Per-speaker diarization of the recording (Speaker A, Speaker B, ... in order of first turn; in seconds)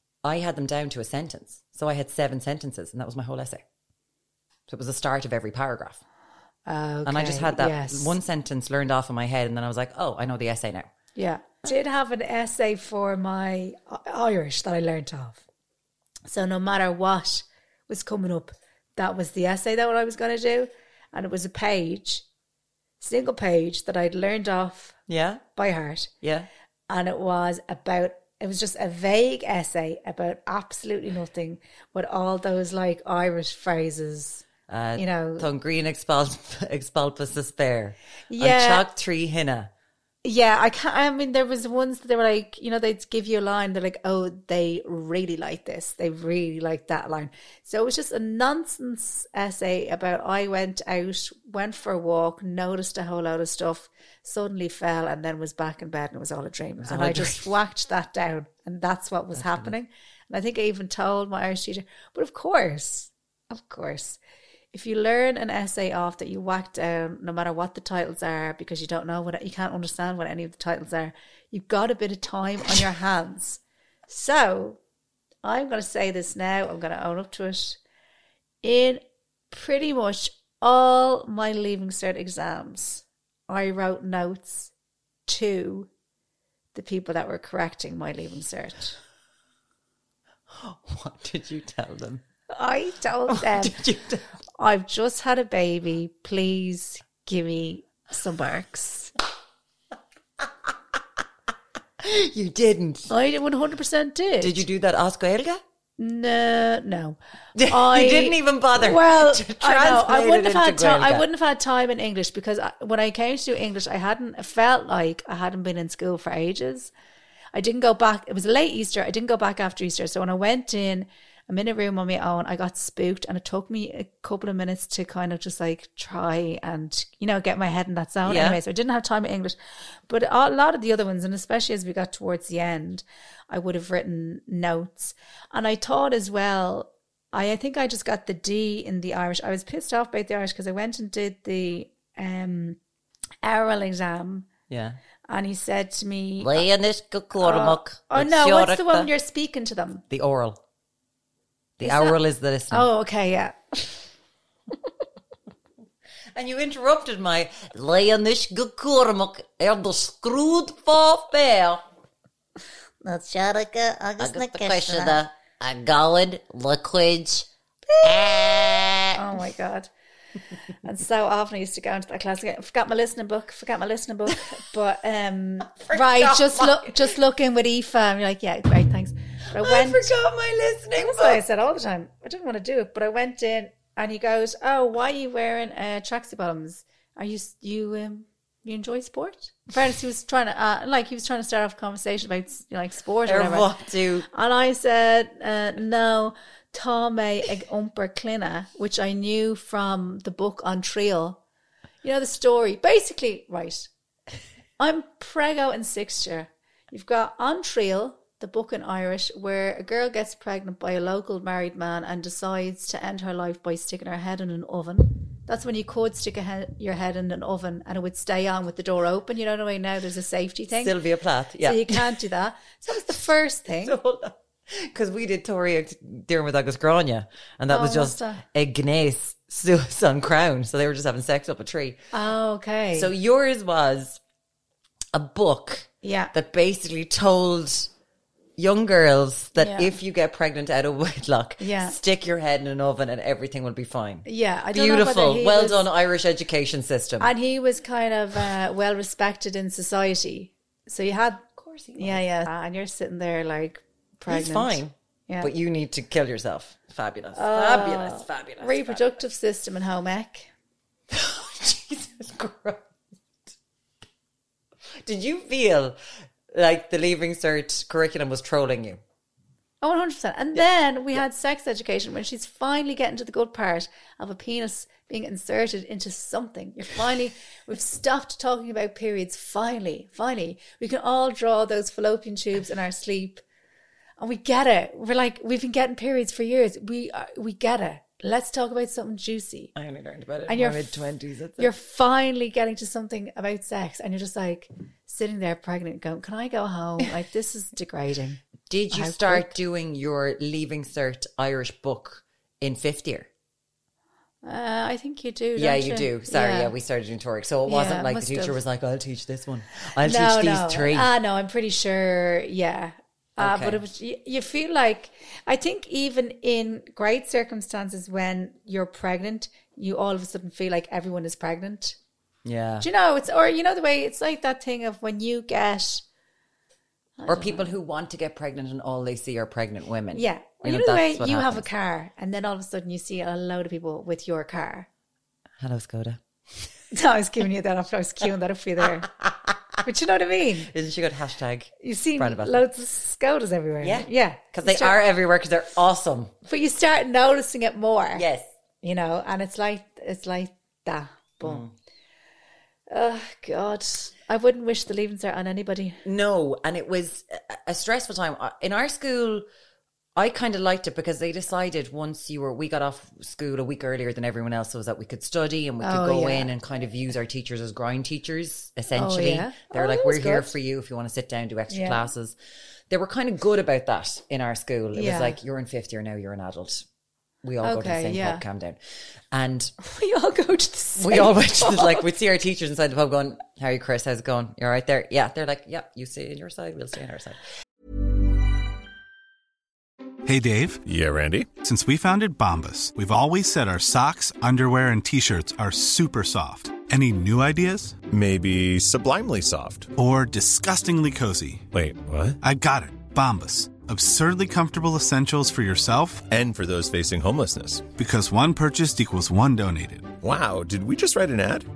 Speaker A: 0.2-3.6, 4.7-6.0, 7.0-10.9, 25.1-25.4, 26.2-26.5, 34.7-39.7, 56.8-57.5, 59.3-59.7, 90.5-92.2, 93.3-94.3, 102.0-103.1, 104.4-105.6, 107.5-111.2, 128.2-128.6, 144.7-145.0, 146.4-149.1, 150.1-150.6, 151.8-152.9, 156.3-161.8, 163.3-167.5, 168.0-169.2, 175.7-177.1, 179.5-181.4, 193.2-194.3, 220.7-222.2, 223.8-232.0, 232.9-234.2, 235.1-237.9, 238.6-247.3, 251.6-252.3, 254.3-259.1, 261.1-262.9, 265.0-266.0, 266.5-269.0, 289.7-291.7, 298.7-303.3, 305.6-311.1, 313.4-313.8, 322.4-322.9, 327.3-331.6, 335.6-336.2, 339.2-339.5, 340.7-342.6, 343.8-346.3, 348.1-348.5, 351.4-351.7, 356.0-359.4, 360.1-372.4, 372.9-376.8, 377.4-378.8, 379.3-379.7, 381.0-387.4
Speaker B: 6.7-8.2, 11.2-15.4, 16.3-22.2, 23.0-25.0, 25.6-26.1, 26.9-35.5, 38.3-38.9, 40.2-64.2, 64.7-74.8, 75.4-77.8, 78.6-84.7, 85.3-85.9, 86.7-89.0, 92.5-93.8, 94.6-99.1, 103.1-104.6, 106.0-116.9, 117.5-129.6, 130.1-142.8, 143.4-144.5, 145.3-146.7, 147.4-150.0, 151.8-152.2, 152.7-154.1, 163.0-165.2, 169.1-169.9, 170.8-180.1, 181.0-193.7, 194.3-201.4, 202.0-203.9, 204.8-220.9, 221.6-224.0, 227.7-228.4, 232.1-233.1, 236.0-236.3, 239.6-239.9, 241.6-242.0, 244.2-245.9, 247.2-255.5, 257.3-260.5, 269.8-283.4, 284.2-289.7, 290.5-291.1, 291.6-299.5, 304.4-306.7, 307.6-308.6, 310.0-322.0, 322.8-326.0, 327.2-327.7, 330.1-334.9, 336.9-339.1, 339.8-340.7, 341.8-345.0, 346.4-348.2, 348.8-351.6, 352.9-356.0, 365.8-366.5, 368.9-370.5, 371.7-372.1, 374.9-375.4, 377.6-378.4, 379.8-382.1
Speaker C: 390.3-390.8, 391.6-397.9, 400.0-401.6, 402.4-406.2, 408.0-410.1
Speaker D: 390.8-391.5, 398.1-399.9, 401.7-402.4, 406.3-407.9, 410.2-411.7